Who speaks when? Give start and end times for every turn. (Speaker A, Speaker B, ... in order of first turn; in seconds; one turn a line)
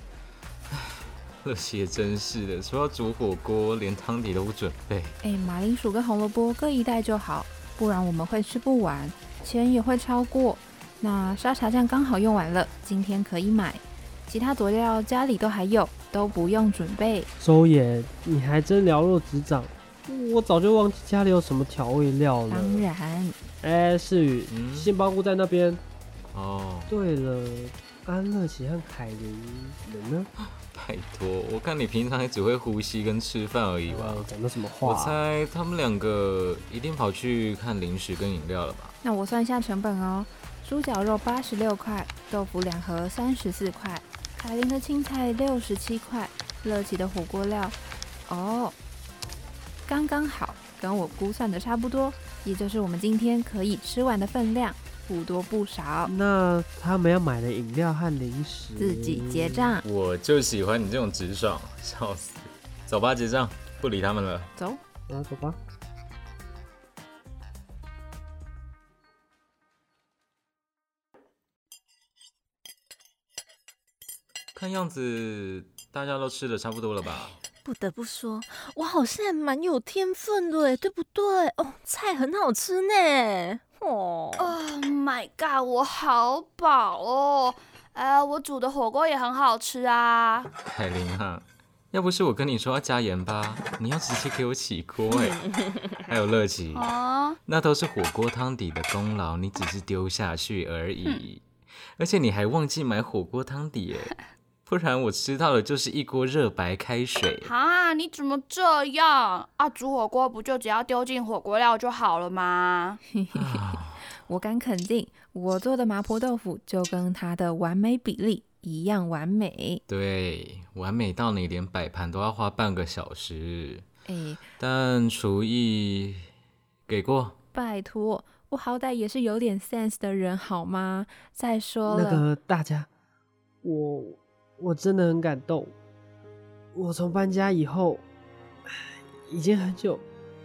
Speaker A: 0.7-5.2
Speaker B: 5.2-17.3
Speaker C: 17.4-22.9
Speaker B: 22.5-23.4
Speaker C: 23.6-25.8
Speaker A: 24.5-24.9
Speaker A: 26.3-26.9
Speaker C: 26.9-30.3
Speaker A: 30.7-38.9
Speaker C: 33.9-35.2
Speaker B: 39.0-48.8
Speaker B: 49.9-56.1
Speaker C: 56.1-59.8
Speaker B: 58.8-59.8
Speaker A: 59.8-64.5
Speaker B: 64.6-64.8
Speaker C: 65.1-65.6
Speaker A: 74.5-77.4
Speaker D: 77.6-84.6
Speaker E: 84.4-90.5
Speaker A: 90.7-95.4
Speaker D: 95.1-95.5
Speaker A: 96.0-96.9
Speaker E: 96.7-97.4
Speaker A: 97.5-101.4
Speaker A: 102.0-104.1
Speaker A: 104.7-107.5
Speaker E: 107.4-113.0
Speaker B: 113.2-119.8
Speaker A: 113.3-114.0
Speaker A: 119.9-123.9
Speaker B: 124.1-124.5
Speaker A: 124.6-126.2
Speaker A: 126.9-127.4
Speaker B: 127.5-132.2
Speaker C: 131.8-132.9
Speaker C: 133.6-135.7
Speaker C: 136.7-138.0
Speaker C: 138.7-140.0